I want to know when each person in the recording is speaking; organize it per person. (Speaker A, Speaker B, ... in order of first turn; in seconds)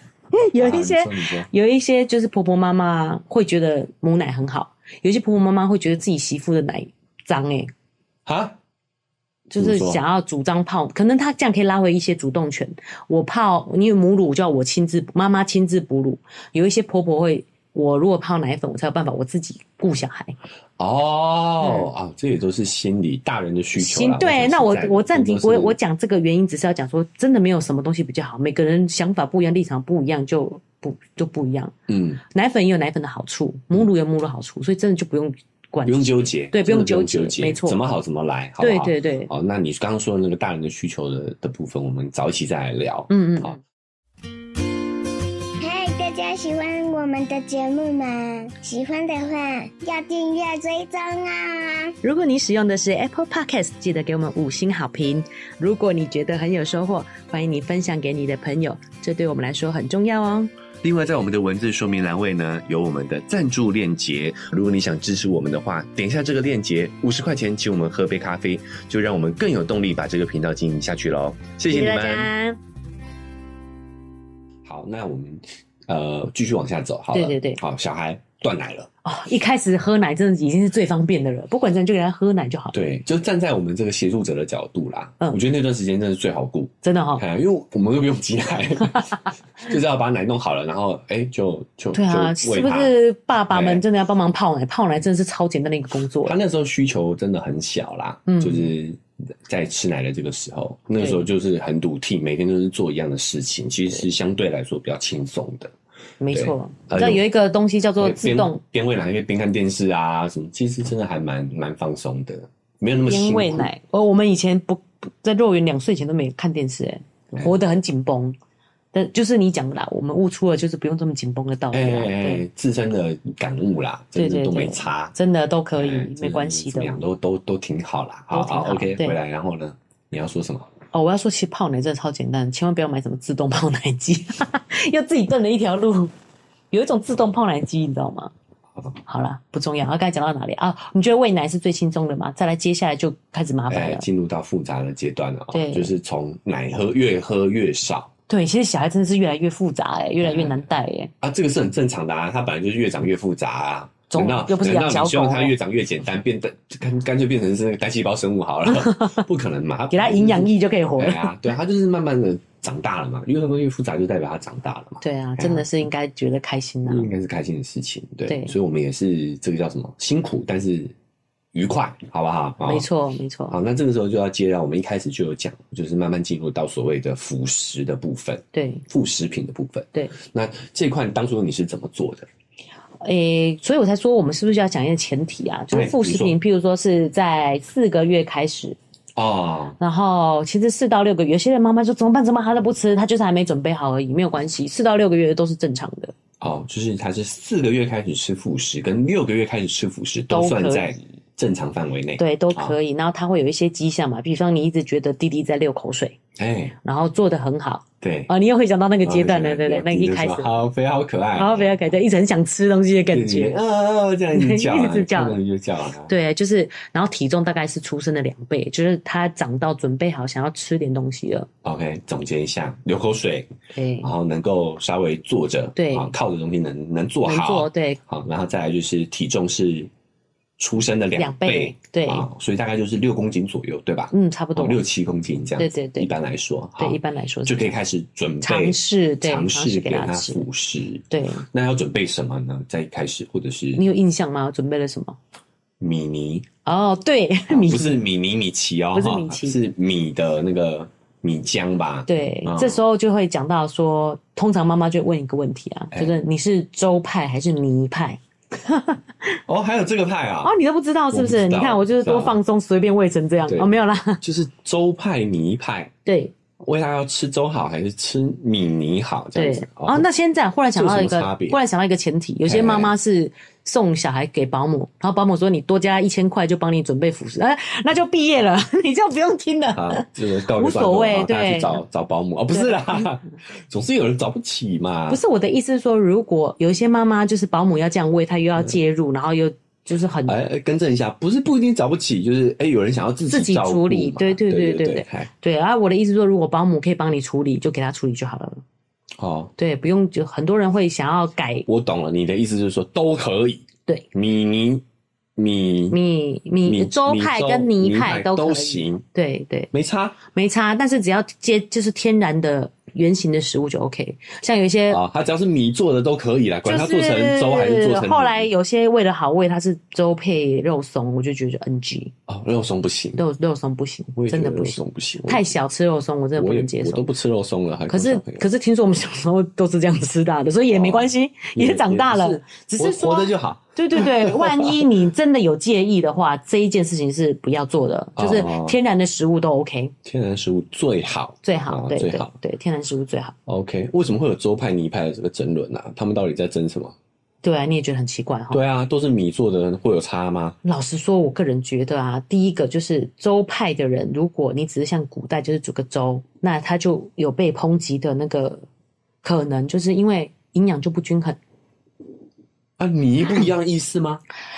Speaker A: 0.3-7.7, 9.5-20.4, 21.6-21.9, 23.8-37.8, 38.6-39.3, 43.1-43.6, 52.0-60.5, 71.7-72.6, 77.1-77.6, 79.0-82.7, 86.8-87.2, 91.9-96.3, 98.3-98.7, 101.0-101.2, 106.2-108.6, 113.1-118.4, 118.9-122.4, 124.2-127.0, 128.3-129.2, 130.9-136.1, 136.7-138.3, 139.1-144.0, 145.5-145.9, 148.3-151.1, 154.1-155.6, 158.7-159.2, 159.9-161.3, 165.0-167.1, 168.3-168.5, 172.6-173.6, 178.5-178.8, 183.0-188.8, 189.8-196.1, 200.3-200.9, 202.2-206.2, 206.8-210.5, 211.3-213.6, 214.3-215.4, 216.1-221.5, 223.7-224.1, 225.8-226.1, 227.2-228.0, 231.2-232.3, 234.1-234.8, 235.6-236.1, 236.8-237.8, 238.4-240.4, 241.1-241.4, 243.8-245.2, 246.6-248.0, 248.9-249.6, 252.1-259.4, 260.4-264.2, 266.0-266.3, 269.4-281.8, 282.5-283.1, 285.1-290.4, 293.3-298.6, 299.6-301.6, 305.9-309.7, 310.3-315.0, 316.6-322.1, 323.2-327.1, 327.9-339.9, 341.4-343.4, 347.4-348.6, 350.6-358.6, 359.2-361.4
Speaker B: 0.5-1.5, 8.2-8.6, 9.6-10.0, 20.8-25.8, 31.9-32.2, 35.9-43.6, 60.8-72.3, 74.6-78.9, 82.7-92.9, 93.5-93.8, 96.2-105.7, 106.3-107.2, 108.0-113.7, 121.7-125.2, 125.7-130.7, 143.7-148.1, 150.2-150.7, 151.2-165.7, 166.8-170.9, 171.5-172.8, 173.5-182.3, 185.7-186.3, 189.2-189.8, 196.4-202.8, 206.4-206.8, 208.0-208.3, 209.0-211.7, 213.1-216.1, 221.6-223.5, 224.0-229.9, 230.6-243.8, 245.8-246.5, 247.5-252.8, 259.5-260.5, 261.1-262.4, 263.4-265.9, 266.6-270.1, 270.7-271.6, 272.4-272.9, 279.7-285.2, 290.3-295.3, 299.2-299.5, 301.6-304.8, 305.4-306.0, 306.6-309.0, 309.7-310.2, 314.9-318.5, 322.3-323.2, 324.1-325.5, 326.4-328.4, 330.7-334.8, 338.2-338.8, 340.0-342.3, 343.5-346.9, 348.5-350.6, 362.8-364.2
Speaker C: 45.6-51.9